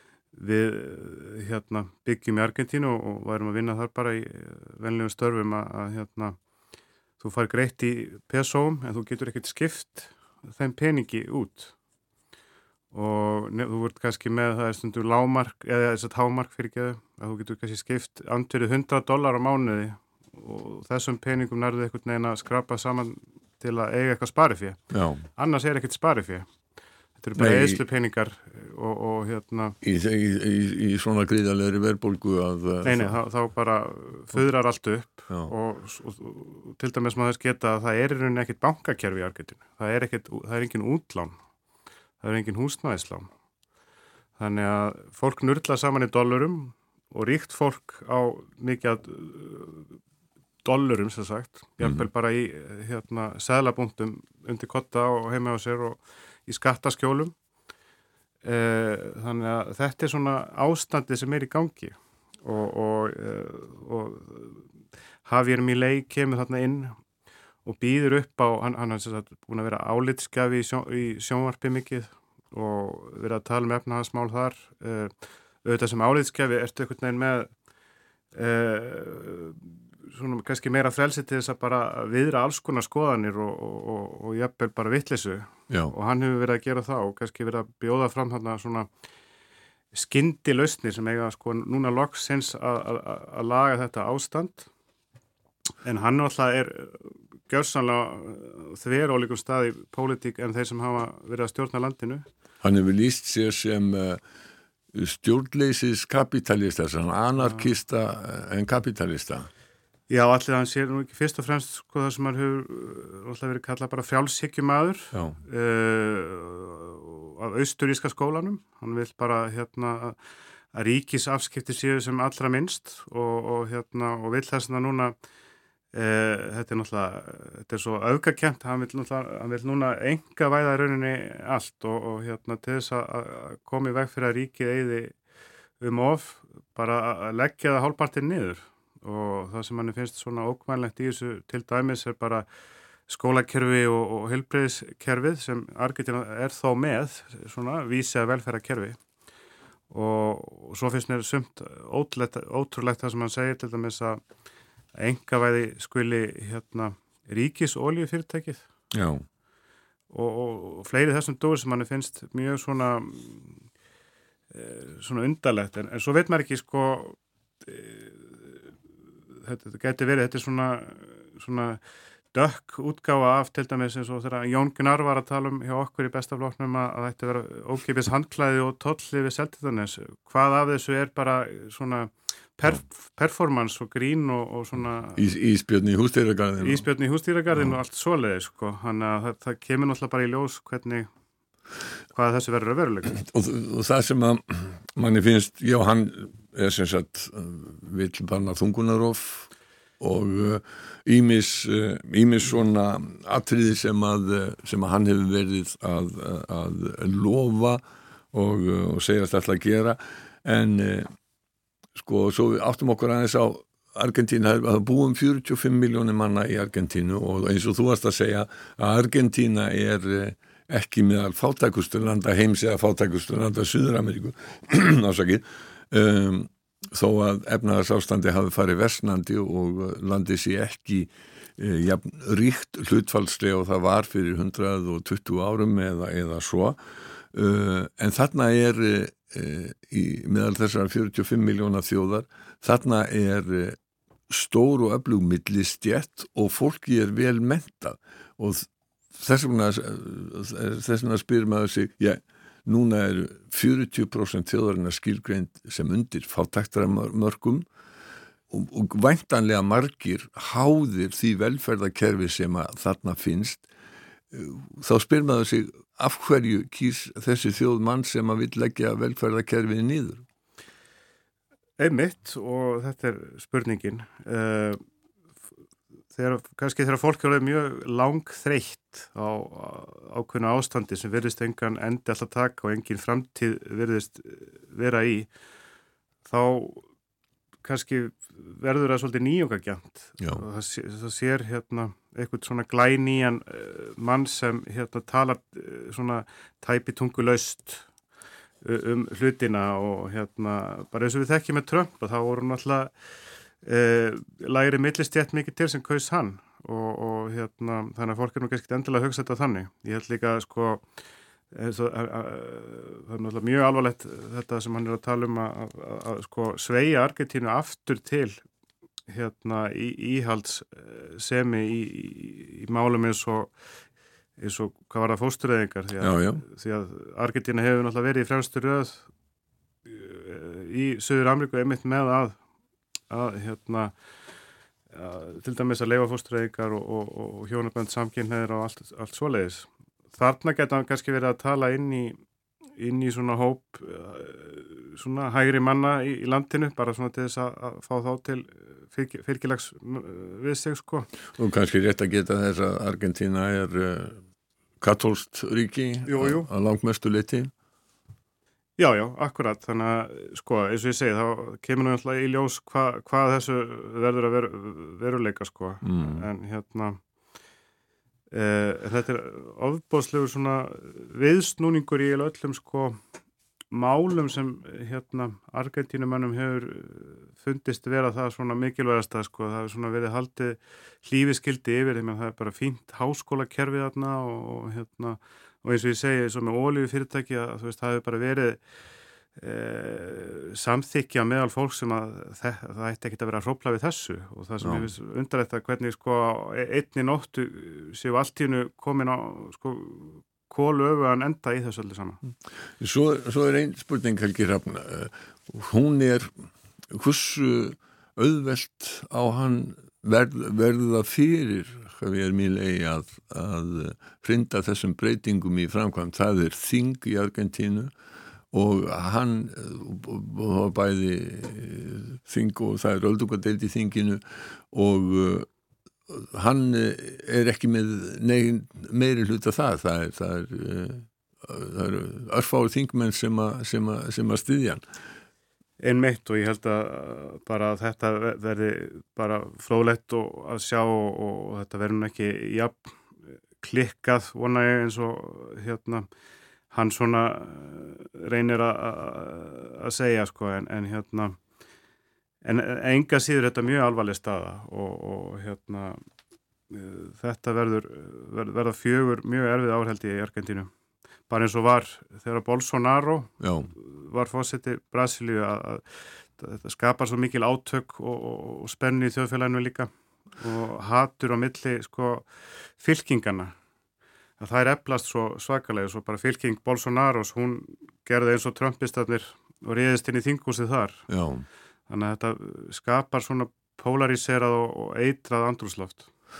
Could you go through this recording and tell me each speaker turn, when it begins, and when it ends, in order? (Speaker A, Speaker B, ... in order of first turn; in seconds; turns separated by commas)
Speaker A: 0.3-6.4, Speaker A: 7.2-11.7, Speaker A: 12.9-24.8, Speaker B: 24.9-25.2, Speaker A: 25.4-26.5, Speaker A: 27.2-29.8, Speaker B: 27.4-27.8, Speaker B: 29.8-33.1, Speaker A: 32.8-41.3, Speaker A: 42.2-43.3, Speaker A: 44.4-50.0, Speaker A: 50.6-57.3, Speaker A: 58.4-64.6, Speaker A: 65.2-67.0, Speaker A: 67.6-75.1, Speaker A: 75.6-77.5, Speaker A: 78.3-88.9, Speaker B: 85.7-85.9, Speaker A: 89.9-94.7, Speaker A: 95.8-102.3, Speaker B: 102.6-104.2, Speaker B: 104.9-109.5, Speaker A: 110.1-120.2, Speaker B: 115.1-115.4, Speaker A: 120.7-125.1, Speaker A: 125.9-135.2, Speaker A: 135.8-142.4, Speaker A: 143.1-149.0, Speaker A: 149.9-154.2, Speaker A: 155.0-158.6, Speaker B: 158.9-159.2, Speaker A: 160.1-163.6, Speaker A: 164.5-168.5, Speaker A: 169.4-171.8, Speaker A: 172.3-185.2, Speaker B: 185.2-186.8, Speaker A: 186.6-191.1, Speaker A: 192.1-193.2, Speaker B: 193.1-199.5, Speaker B: 200.0-207.8, Speaker B: 208.3-211.1, Speaker B: 211.9-236.8, Speaker B: 237.3-243.8, Speaker B: 244.3-257.6, Speaker B: 258.5-263.6, Speaker B: 264.3-270.2, Speaker A: 271.8-274.8, Speaker A: 276.1-285.3, Speaker A: 286.2-286.9, Speaker A: 287.6-297.9, Speaker A: 298.6-302.9, Speaker A: 303.6-310.8, Speaker A: 311.5-318.4, Speaker A: 319.1-323.5, Speaker A: 324.4-329.1, Speaker B: 326.0-326.4, Speaker A: 329.9-332.4, Speaker A: 333.1-333.9, Speaker A: 334.9-342.2, Speaker A: 342.8-351.1, Speaker B: 351.4-354.2, Speaker B: 354.8-357.5, Speaker A: 356.1-356.5, Speaker A: 358.8-367.0, Speaker B: 365.8-366.2, Speaker A: 368.3-373.0, Speaker A: 373.7-388.6, Speaker A: 389.4-402.2, Speaker B: 394.6-394.9, Speaker B: 402.8-406.3, Speaker B: 406.9-417.9, Speaker B: 418.5-425.5, Speaker B: 426.1-434.8, Speaker A: 435.8-442.9, Speaker A: 443.6-446.1, Speaker A: 446.7-451.4, Speaker A: 452.4-456.0, Speaker A: 456.7-460.7, Speaker A: 461.3-473.5, Speaker B: 463.4-463.7, Speaker A: 474.4-481.0, Speaker B: 481.1-481.4, Speaker A: 481.9-486.1